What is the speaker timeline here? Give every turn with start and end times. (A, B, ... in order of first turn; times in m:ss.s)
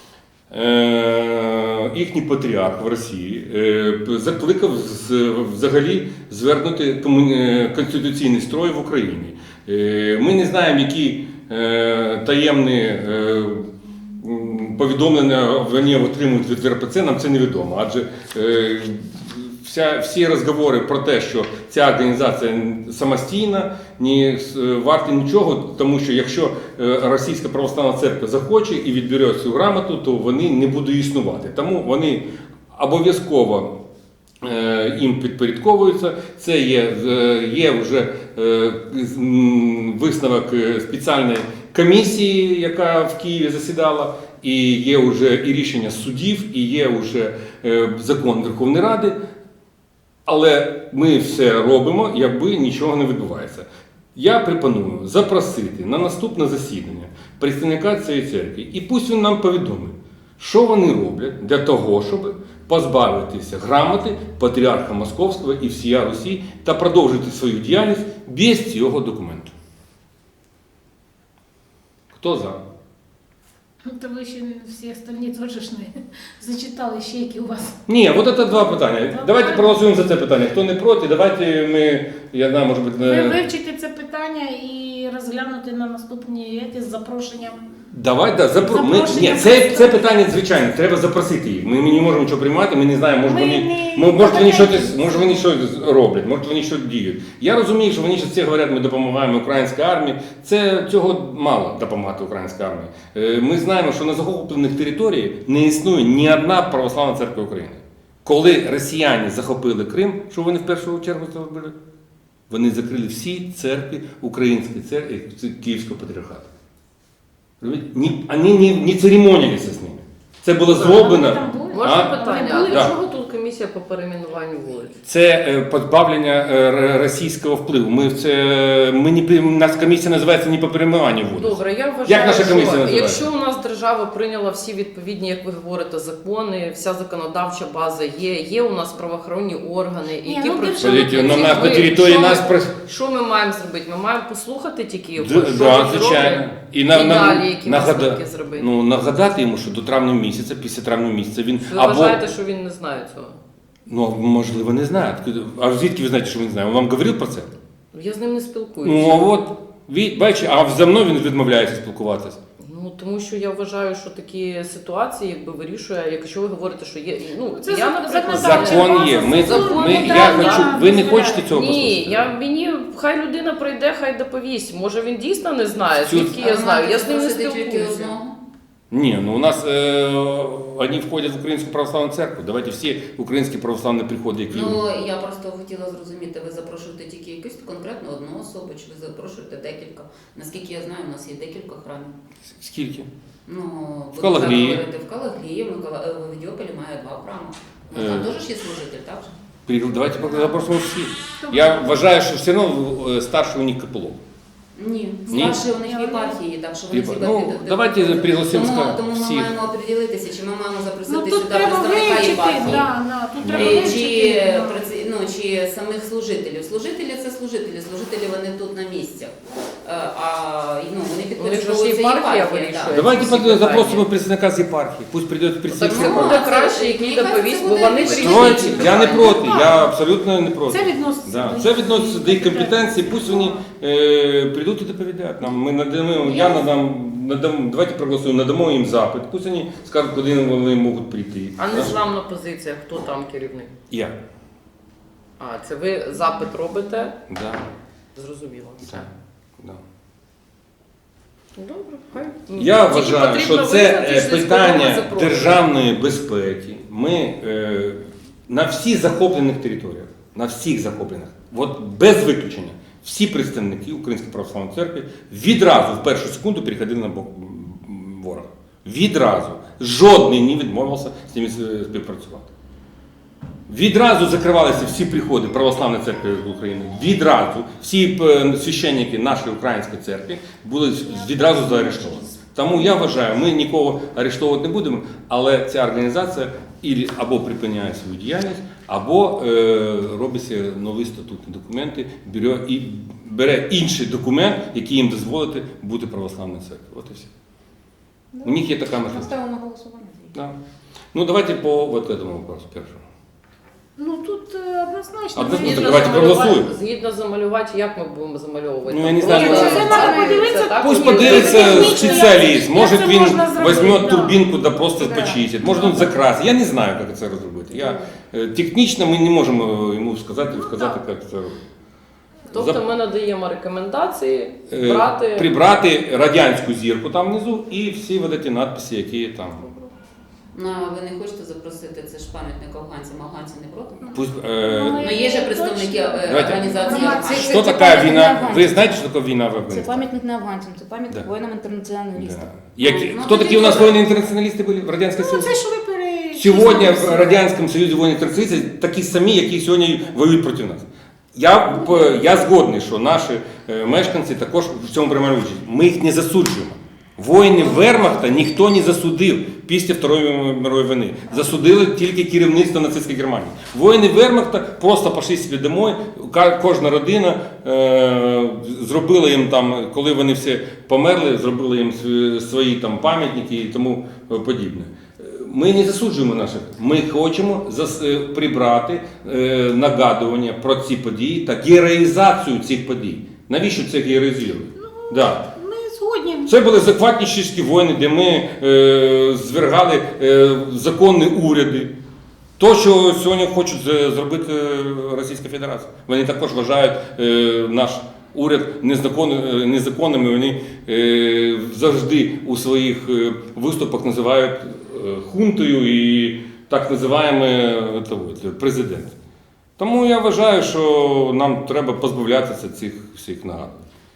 0:00.5-0:33.7 A
0:34.4-0:49.2 A
0:50.2-1:09.5 A
1:12.1-1:12.6 A
1:13.8-1:17.8 B
1:17.9-1:23.4 A
1:18.5-1:19.8 B
1:23.0-1:27.6 B
1:27.9-1:51.7 A
1:28.6-1:30.2 B
1:33.2-1:35.4 B
1:52.5-1:56.5 A
1:57.6-2:02.1 A
2:00.7-2:02.9 B
2:01.7-2:04.9 C
2:02.7-2:02.9 A
2:05.0-2:13.3 A
2:11.3-2:28.7 C
2:20.2-2:22.4 B
2:20.8-2:22.8 A
2:25.2-2:32.2 A
2:31.6-2:33.4 C
2:33.9-2:37.5 A
2:37.9-2:39.3 C
2:38.8-2:42.4 A
2:42.6-2:58.1 C
2:47.5-2:51.5 B
2:48.3-2:52.3 A
2:56.0-2:56.4 A
2:56.3-2:58.4 D
2:58.9-3:04.8 A
3:04.5-3:12.1 D
3:12.5-3:13.1 A
3:13.4-3:19.3 D
3:14.2-3:14.8 A
3:17.9-3:18.3 A
3:19.7-3:24.2 A
3:21.4-3:21.9 B
3:24.8-3:32.9 D
3:25.3-3:26.4 B
3:25.3-3:25.6 A
3:26.9-3:29.5 A
3:31.1-3:34.8 B
3:33.4-3:34.0 A
3:33.5-3:39.3 D
3:39.8-3:43.0 D
3:41.4-3:44.0 C
3:42.9-3:46.4 A
3:45.7-3:49.2 C
3:45.8-3:49.4 D
3:48.1-4:02.0 A
3:49.2-3:49.8 B
3:50.7-3:53.6 B
4:01.6-4:03.7 C
4:03.9-4:04.1 A
4:05.4-4:07.2 C
4:07.3-4:07.6 A
4:08.2-4:09.1 C
4:11.6-4:15.6 C
4:12.6-4:32.5 A
4:33.7-4:57.3 A
4:58.3-5:00.4 E
4:58.4-4:59.3 A
5:01.1-5:03.0 A
5:04.0-5:06.2 B
5:05.3-5:06.7 A
5:05.6-5:12.0 C
5:08.8-5:10.1 A
5:09.2-5:12.2 E
5:09.2-5:14.4 B
5:10.8-5:21.6 A
5:14.9-5:16.2 E
5:15.6-5:16.0 B
5:17.7-5:18.1 E
5:20.5-5:21.0 B
5:22.5-5:25.5 C
5:22.5-5:22.8 A
5:24.7-5:29.7 A
5:30.5-5:34.2 D
5:34.1-5:35.2 A
5:34.6-5:38.2 B
5:35.0-5:37.6 D
5:36.3-5:36.7 A
5:37.0-5:39.0 E
5:37.4-5:40.1 A
5:39.6-5:42.6 E
5:42.2-5:45.6 A
5:42.8-5:44.0 D
5:45.2-5:47.4 B
5:46.3-6:25.4 A
6:24.8-6:26.5 B
6:26.5-6:31.9 A
6:32.6-6:49.1 A
6:49.8-6:53.7 A